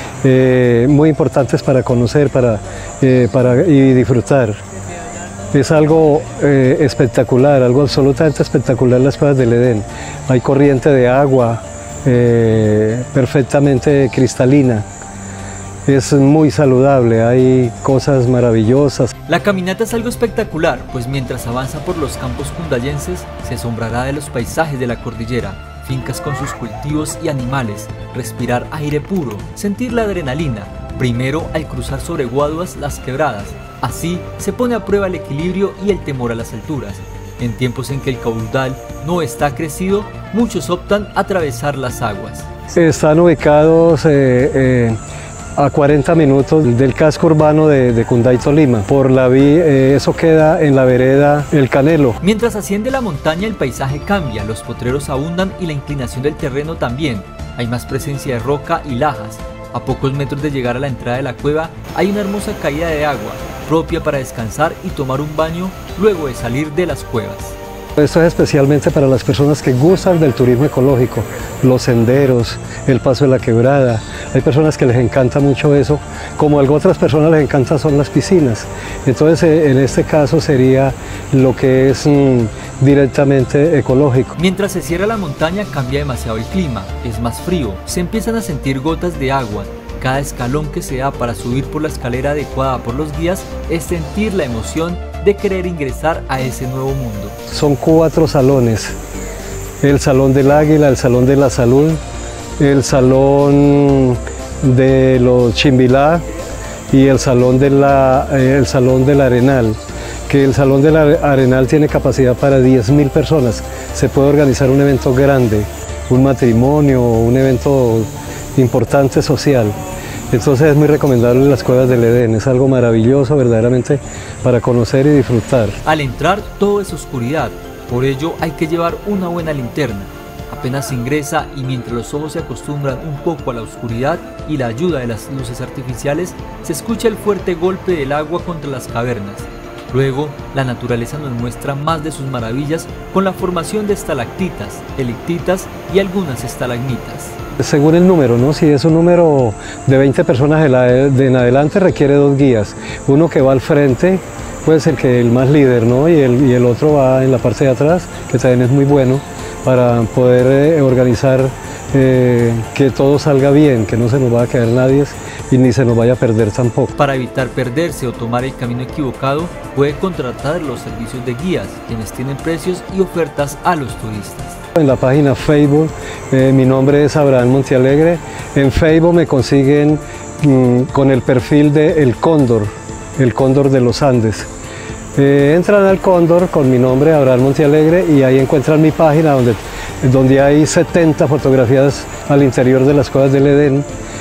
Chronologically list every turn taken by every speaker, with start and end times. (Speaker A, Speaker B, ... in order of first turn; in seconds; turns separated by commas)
Speaker A: 0.2-4.6, Speaker A: 5.5-14.8, Speaker A: 15.9-19.1, Speaker B: 19.3-42.5, Speaker A: 42.7-45.0, Speaker A: 45.6-52.2, Speaker B: 52.2-67.6, Speaker A: 68.0-84.3, Speaker B: 84.3-97.4, Speaker A: 97.5-98.9, Speaker A: 99.8-102.0, Speaker A: 102.6-106.2, Speaker A: 106.9-119.8, Speaker A: 120.3-125.8, Speaker B: 125.8-147.3, Speaker A: 147.6-166.9, Speaker B: 167.0-174.6, Speaker A: 174.8-184.5, Speaker A: 185.2-193.8